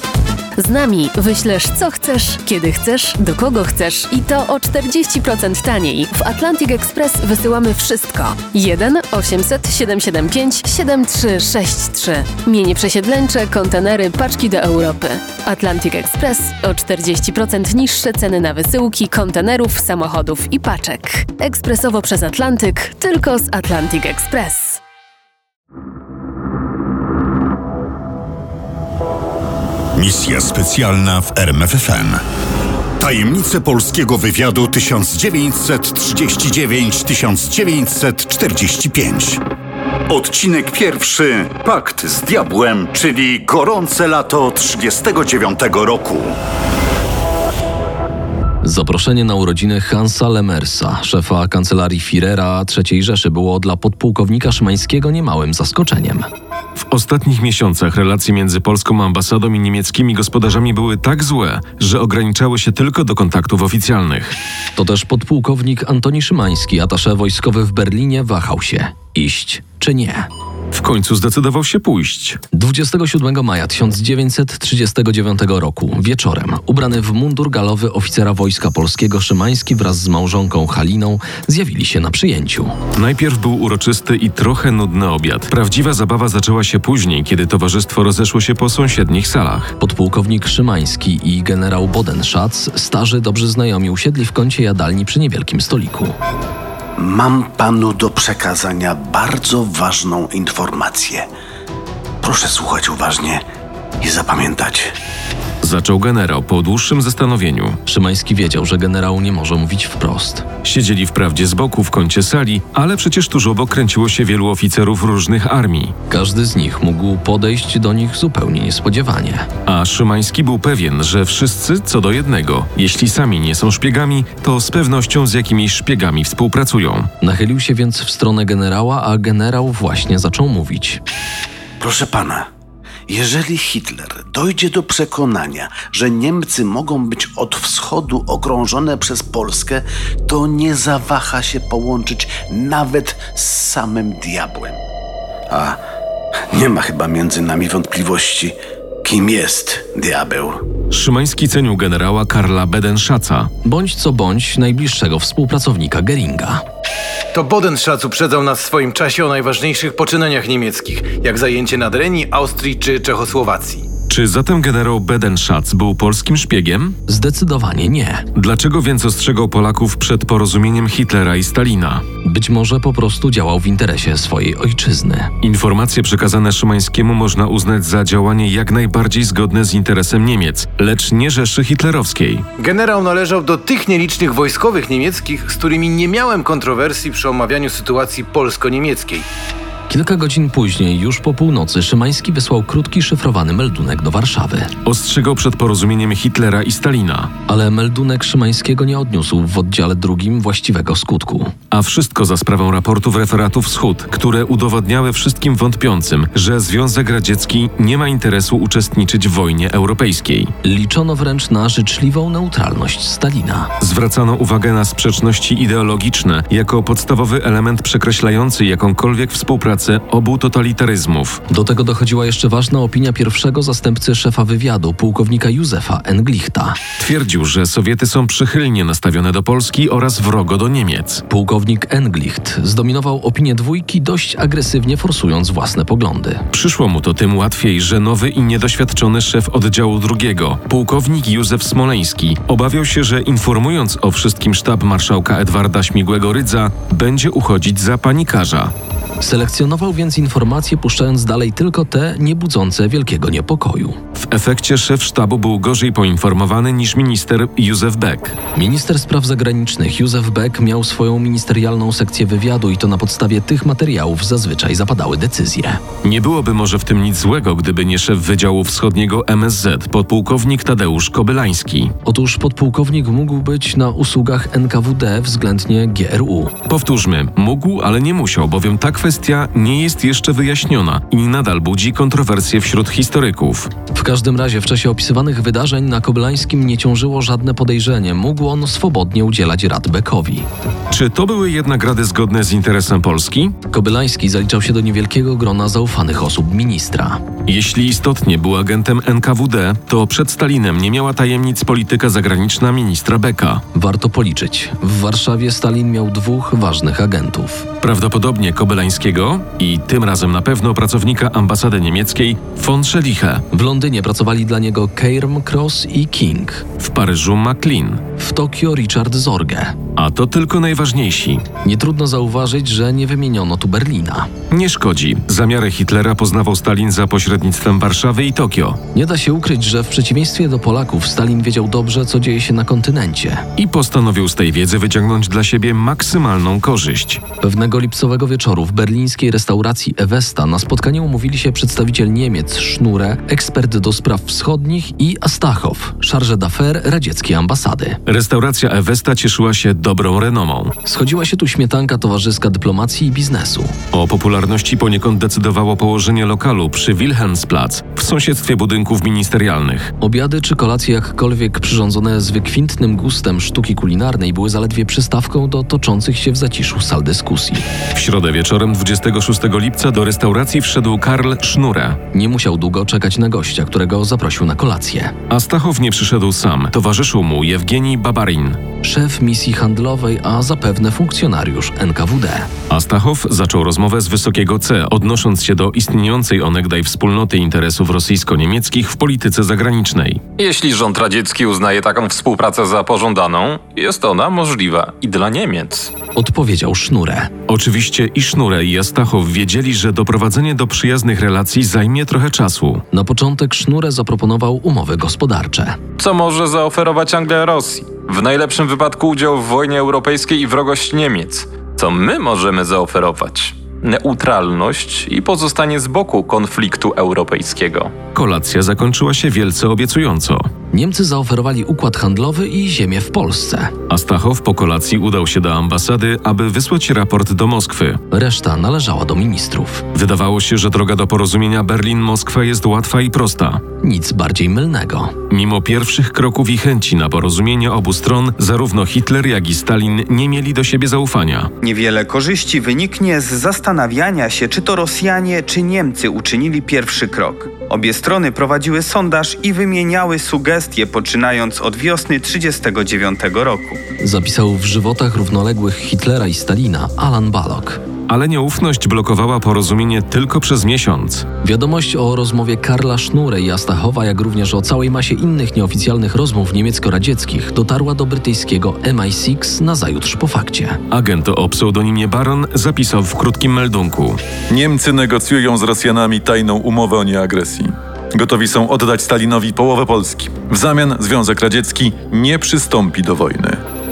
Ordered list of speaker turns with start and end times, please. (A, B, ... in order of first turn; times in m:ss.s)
0:00.6-0:24.8 A
0:30.0-0:32.2 B
0:33.0-0:39.4 B
0:40.1-0:46.3 B
0:48.6-0:56.3 C
0:56.9-1:04.4 D
1:04.8-1:10.3 C
1:10.7-1:12.4 D
1:12.5-1:22.7 C
1:23.0-1:29.7 D
1:29.8-1:36.2 C
1:37.0-1:41.3 E
1:42.2-1:43.4 E
1:44.0-1:44.9 E
1:45.6-1:47.8 D
1:47.9-1:50.4 C
1:50.6-1:56.0 D
1:56.1-1:59.5 C
1:59.6-2:07.1 D
2:07.2-2:11.0 C
2:11.8-2:12.5 E
2:13.1-2:24.8 E
2:25.5-2:25.8 E
2:26.5-2:30.6 E
2:30.9-2:33.5 D
2:33.6-2:36.6 C
2:37.3-2:43.8 F
2:44.1-2:47.0 D
2:47.1-2:48.2 C
2:48.3-2:52.0 D
2:52.2-2:55.3 C
2:55.4-3:02.4 D
3:02.6-3:09.2 F
3:09.9-3:14.7 C
3:14.8-3:17.3 D
3:17.5-3:21.5 C
3:21.7-3:30.5 D
3:30.6-3:33.7 C
3:33.8-3:41.4 D
3:41.5-3:46.8 C
3:47.0-3:51.2 D
3:51.3-3:56.4 C
3:56.5-4:08.7 D
4:09.2-4:14.0 C
4:14.2-4:18.4 D
4:18.5-4:25.8 C
4:26.0-4:31.9 D
4:32.0-4:36.5 C
4:36.6-4:43.7 D
4:43.9-4:50.5 C
4:50.9-4:53.6 D
4:53.7-4:57.2 C
4:57.4-5:03.6 D
5:03.7-5:07.7 C
5:07.8-5:13.4 D
5:13.5-5:16.6 C
5:16.8-5:18.0 D
5:18.2-5:19.8 C
5:20.0-5:21.4 D
5:21.6-5:24.3 C
5:24.5-5:28.8 D
5:28.9-5:33.4 C
5:33.6-5:37.2 D
5:37.4-5:48.0 C
5:48.1-5:50.7 D
5:50.8-5:53.7 C
5:53.9-5:59.9 D
6:00.0-6:07.6 C
6:07.9-6:12.0 D
6:12.1-6:15.1 C
6:15.3-6:18.6 D
6:18.8-6:22.5 C
6:22.7-6:30.2 D
6:30.4-6:35.9 G
6:36.2-6:37.3 C
6:37.5-6:42.8 D
6:42.9-6:45.8 C
6:46.0-6:57.9 G
6:58.1-7:00.5 D
7:00.7-7:03.7 C
7:03.9-7:08.0 D
7:08.1-7:09.8 C
7:09.9-7:13.6 D
7:13.8-7:15.1 C
7:15.3-7:21.5 D
7:21.6-7:33.8 H
7:34.0-7:37.8 C
7:38.1-7:41.2 D
7:41.4-7:50.8 C
7:50.9-7:54.2 D
7:54.5-8:03.6 I